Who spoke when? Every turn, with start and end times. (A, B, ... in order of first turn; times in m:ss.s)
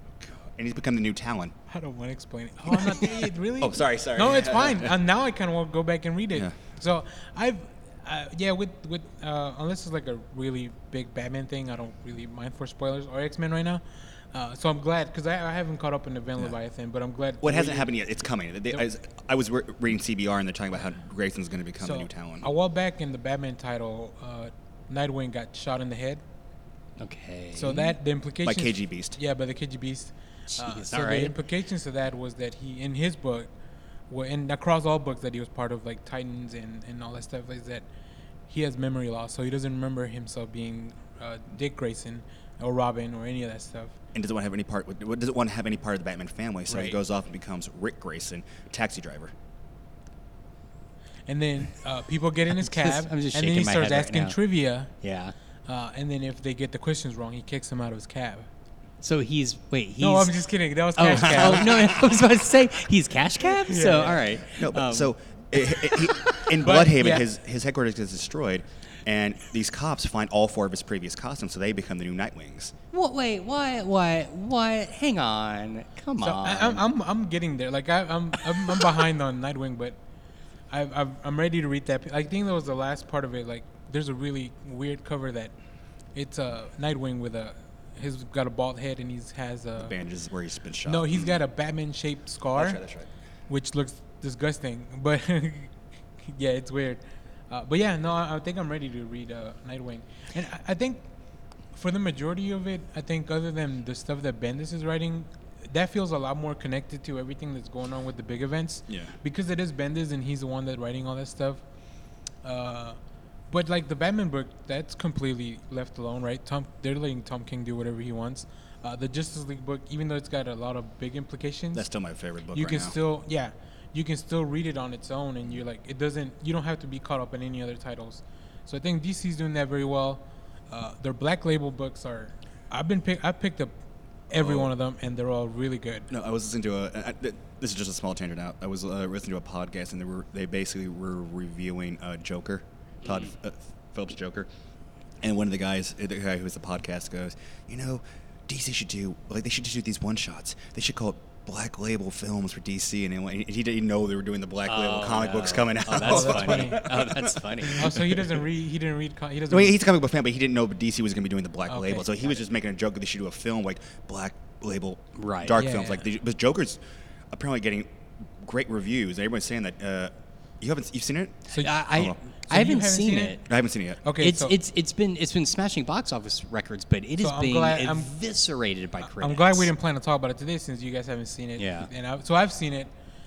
0:00.2-0:01.5 A
0:01.7-0:17.9 B
0:03.6-0:04.9 A
0:17.4-0:22.5 A
0:21.8-0:26.2 B
0:27.0-0:27.9 C
0:27.5-0:33.5 B
0:28.4-0:29.2 A
0:30.5-0:31.3 C
0:34.1-0:37.8 B
0:38.5-0:43.9 B
0:44.1-0:49.3 A
0:46.7-0:47.0 B
0:51.3-0:54.9 B
0:52.6-0:54.4 C
0:55.0-0:55.3 C
0:55.7-0:58.5 B
0:59.0-1:00.4 C
1:00.0-1:02.1 B
1:01.0-1:05.1 C
1:03.4-1:04.2 B
1:04.5-1:12.7 A
1:05.8-1:06.5 C
1:06.6-1:07.2 B
1:12.9-1:16.8 C
1:16.2-1:20.0 B
1:20.7-1:25.5 B
1:26.1-1:29.9 B
1:29.8-1:31.4 A
1:30.8-1:32.8 B
1:32.5-1:33.1 A
1:33.5-1:35.7 B
1:36.2-1:41.1 B
1:41.7-1:51.6 B
1:48.9-1:49.2 A
1:52.4-1:53.0 B
1:53.5-2:01.9 B
2:01.7-2:03.0 A
2:02.5-2:13.7 B
2:14.3-2:16.1 B
2:14.3-2:14.7 A
2:16.1-2:24.5 A
2:25.2-2:38.3 A
2:34.6-2:38.0 C
2:36.0-2:36.8 B
2:37.7-2:39.8 B
2:39.5-2:46.8 A
2:41.7-2:42.1 B
2:45.2-2:45.6 C
2:45.6-2:46.0 B
2:47.3-2:52.2 A
2:51.5-2:53.4 B
2:51.6-2:53.4 C
2:53.4-2:54.0 A
2:54.0-2:54.5 B
2:54.2-2:59.7 C
2:57.2-2:58.1 B
2:59.0-3:02.9 B
3:01.6-3:01.9 C